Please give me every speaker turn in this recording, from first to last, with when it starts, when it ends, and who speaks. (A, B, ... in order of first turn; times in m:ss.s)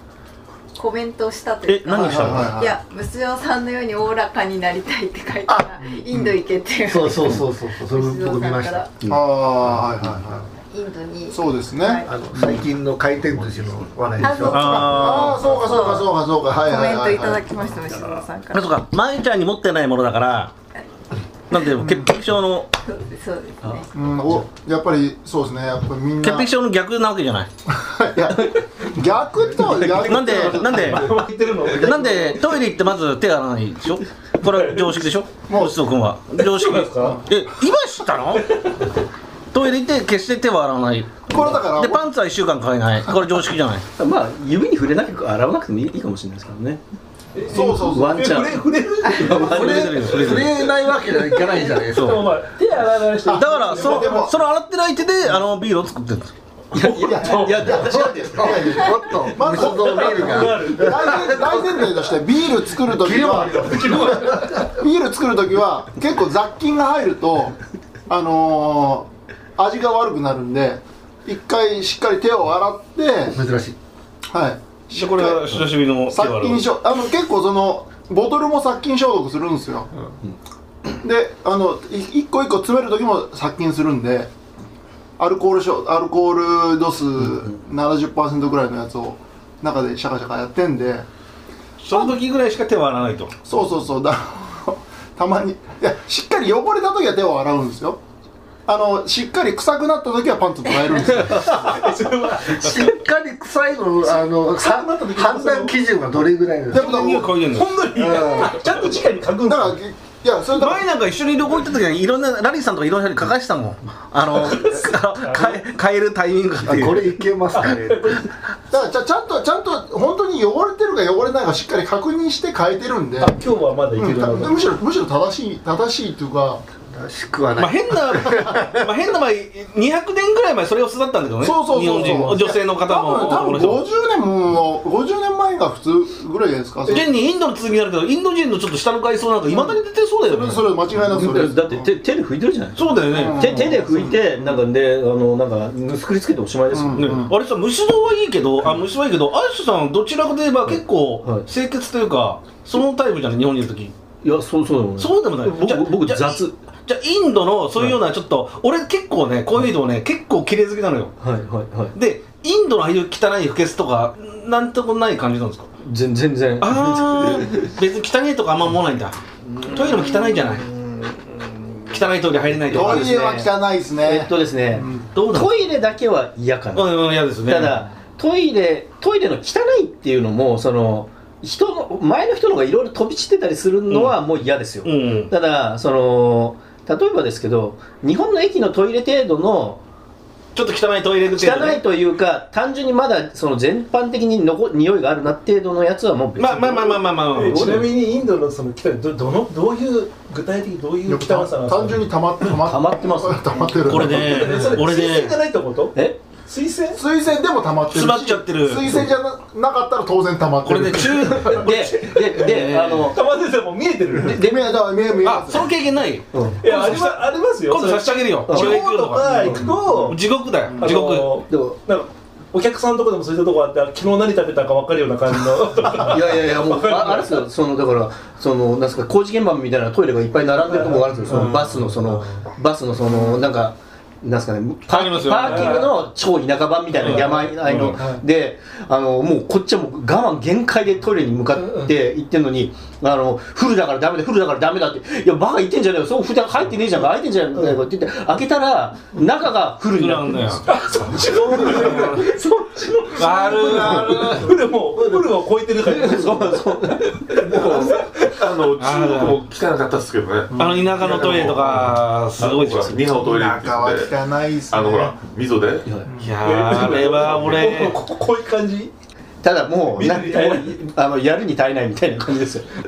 0:00.7-0:08.9 A
0:01.7-0:02.5 B
0:01.9-0:02.8 C
0:05.8-0:06.3 C
0:06.9-0:08.8 D
0:09.1-0:10.5 C
0:10.6-0:12.1 A
0:11.3-0:12.6 C
0:12.0-0:15.1 D
0:14.2-0:18.7 A
0:14.2-0:17.7 C
0:14.5-0:15.4 B
0:18.5-0:20.5 B
0:21.5-0:22.7 B
0:21.8-0:22.1 C
0:22.8-0:23.9 A
0:23.6-0:24.4 E
0:23.9-0:26.5 C
0:26.2-0:27.5 B
0:27.7-0:31.0 C
0:29.6-0:32.3 F
0:29.8-0:38.5 B
0:34.4-0:34.9 F
0:35.5-0:35.8 C
0:36.4-0:37.2 F
0:38.4-0:38.9 F
0:39.5-0:43.8 B
0:41.3-0:42.1 C
0:44.0-0:46.8 E
0:47.3-0:54.3 F
0:47.5-0:48.4 C
0:47.8-0:50.1 E
0:49.4-0:50.7 B
0:50.1-0:52.2 D
0:51.9-0:52.2 B
0:53.2-0:54.3 C
0:53.3-0:56.3 B
0:56.7-0:58.8 E
0:56.8-0:57.8 F
0:57.0-0:57.8 C
0:57.8-1:02.1 D
0:58.4-1:07.6 C
0:59.4-1:01.4 F
1:02.8-1:04.7 D
1:08.1-1:13.4 C
1:13.3-1:13.8 D
1:14.3-1:19.9 C
1:14.9-1:16.6 B
1:21.0-1:24.3 C
1:25.2-1:31.0 C
1:31.8-1:33.3 B
1:33.4-1:38.0 C
1:38.7-1:41.7 C
1:41.3-1:42.6 F
1:41.6-1:47.0 D
1:44.5-1:45.7 F
1:46.7-1:47.8 B
1:46.7-1:47.3 C
1:47.4-1:49.8 F
1:47.9-1:48.6 D
1:49.4-1:50.8 C
1:50.5-1:57.0 B
1:54.5-1:55.6 F
1:56.6-1:58.2 D
1:57.5-1:58.3 F
1:58.7-2:03.4 C
2:03.2-2:04.6 F
2:04.0-2:06.6 C
2:06.9-2:08.9 D
2:07.6-2:13.8 B
2:11.4-2:17.1 C
2:16.9-2:20.7 B
2:19.5-2:21.9 C
2:21.1-2:27.2 E
2:22.8-2:23.8 B
2:23.1-2:24.6 C
2:26.7-2:27.3 C
2:27.0-2:33.9 B
2:30.7-2:31.4 E
2:34.2-2:36.5 E
2:35.0-2:41.1 B
2:41.2-2:41.9 E
2:41.9-2:45.7 B
2:45.8-2:47.7 E
2:46.6-2:50.7 B
2:51.8-2:53.3 B
2:52.7-3:09.8 E
2:52.7-2:55.1 C
2:55.1-2:55.5 B
2:56.7-2:57.8 B
3:03.9-3:04.2 B
3:04.8-3:05.3 B
3:10.5-3:11.8 B
3:11.3-3:17.0 E
3:16.4-3:17.9 B
3:17.3-3:22.1 F
3:17.5-3:17.9 E
3:21.0-3:24.5 C
3:22.6-3:23.7 E
3:23.8-3:25.4 B
3:24.0-3:27.0 F
3:25.9-3:26.2 E
3:26.9-3:31.5 C
3:27.9-3:28.9 B
3:30.6-3:33.1 B
3:31.4-3:33.2 E
3:31.7-3:32.4 F
3:33.0-3:34.5 F
3:34.2-3:34.6 E
3:34.2-3:35.7 C
3:35.2-3:41.3 B
3:36.3-3:36.6 E
3:36.6-3:40.2 F
3:38.5-3:39.6 E
3:40.8-3:47.4 F
3:41.5-3:41.8 E
3:46.0-4:10.6 E
3:50.6-3:52.5 F
3:54.9-3:55.9 B
3:55.3-3:56.0 F
3:57.0-3:58.2 F
3:57.0-3:57.9 B
4:01.6-4:01.9 F
4:09.9-4:12.3 B
4:10.6-4:18.2 F
4:11.5-4:12.2 E
4:13.1-4:14.5 B
4:13.4-4:15.5 D
4:15.8-4:17.4 E
4:17.5-4:24.1 G
4:17.6-4:17.8 D
4:18.8-4:19.4 B
4:20.5-4:20.8 C
4:20.6-4:23.0 B
4:23.1-4:25.1 C
4:24.7-4:25.9 G
4:26.0-4:26.4 C
4:26.2-4:28.0 B
4:26.4-4:28.9 F
4:29.4-4:32.7 E
4:30.0-4:30.7 F